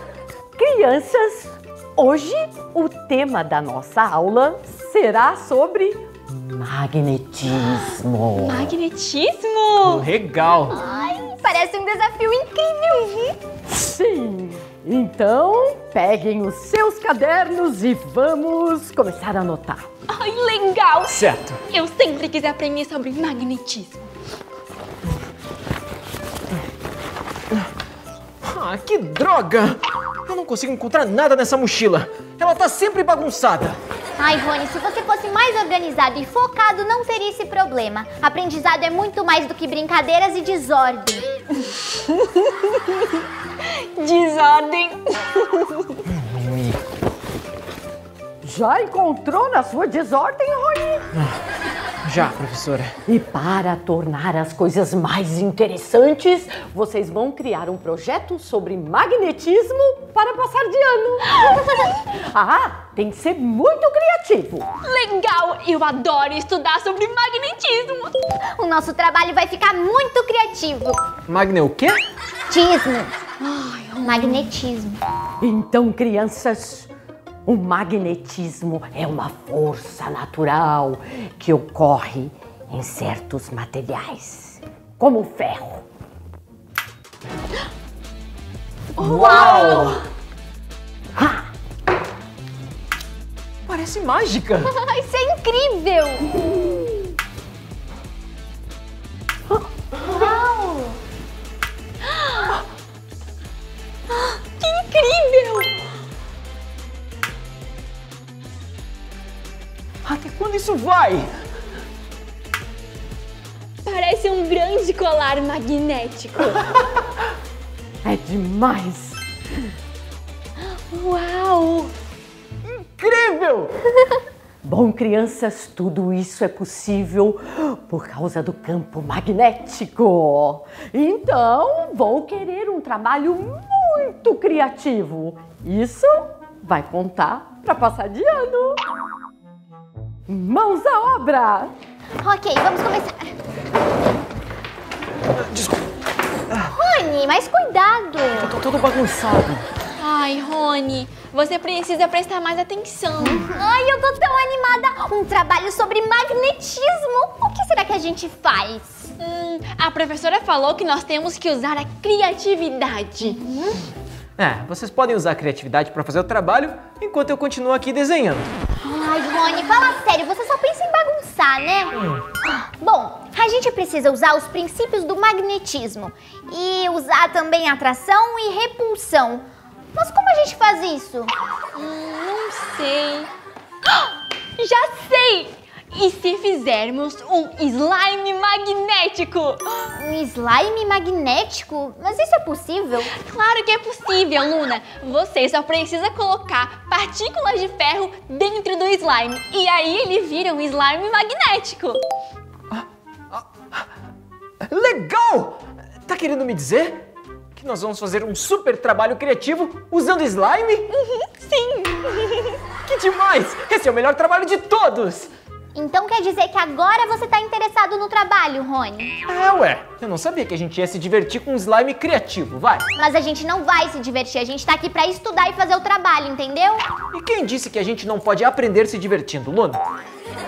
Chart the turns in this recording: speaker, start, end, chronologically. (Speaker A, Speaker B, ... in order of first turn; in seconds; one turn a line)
Speaker A: 0.6-8.7
Speaker B: 8.4-10.1
Speaker C: 9.8-10.8
Speaker D: 10.7-13.3
Speaker A: 13.7-19.9
Speaker B: 20.1-24.1
Speaker C: 21.1-21.6
Speaker C: 28.4-33.8
Speaker D: 34.2-41.3
Speaker B: 42.0-46.0
Speaker C: 46.1-46.8
Speaker A: 48.4-51.1
Speaker C: 52.0-52.9
Speaker A: 53.1-64.7
Speaker B: 64.8-68.1
Speaker D: 68.6-71.0
Speaker C: 71.3-72.0
Speaker D: 72.5-73.2
Speaker B: 73.4-74.5
Speaker D: 74.0-75.0
Speaker A: 75.4-76.9
Speaker A: 77.5-85.8
Speaker B: 89.0-90.0
Speaker C: 89.0-90.0
Speaker D: 89.0-89.9
Speaker A: 91.2-91.4
Speaker C: 93.7-94.7
Speaker D: 94.7-96.6
Speaker D: 100.0-101.0
Speaker B: 104.1-105.7
Speaker C: 110.0-111.3
Speaker B: 113.8-116.7
Speaker A: 118.0-119.3
Speaker B: 120.6-121.9
Speaker C: 122.6-123.7
Speaker A: 124.6-138.8
Speaker A: 140.3-141.7
Speaker D: 142.2-143.3
Speaker C: 145.3-145.9
Speaker D: 146.7-148.6
Speaker C: 148.4-149.7
Speaker B: 150.0-153.5
Speaker D: 153.2-159.1
Speaker B: 159.2-163.4
Speaker D: 163.4-163.8
Speaker C: 164.4-168.5
Speaker D: 168.8-181.3
Speaker C: 171.9-172.2
Speaker B: 181.8-183.3
Speaker B: 183.9-189.9
Speaker D: 190.0-193.1
Speaker B: 193.2-202.0
Speaker C: 202.7-203.8
Speaker C: 204.6-207.0
Speaker C: 207.6-210.9
Speaker B: 210.9-212.6
Speaker C: 212.8-215.3
Speaker D: 215.7-219.1
Speaker C: 219.3-222.9
Speaker D: 223.0-226.9
Speaker C: 227.1-229.8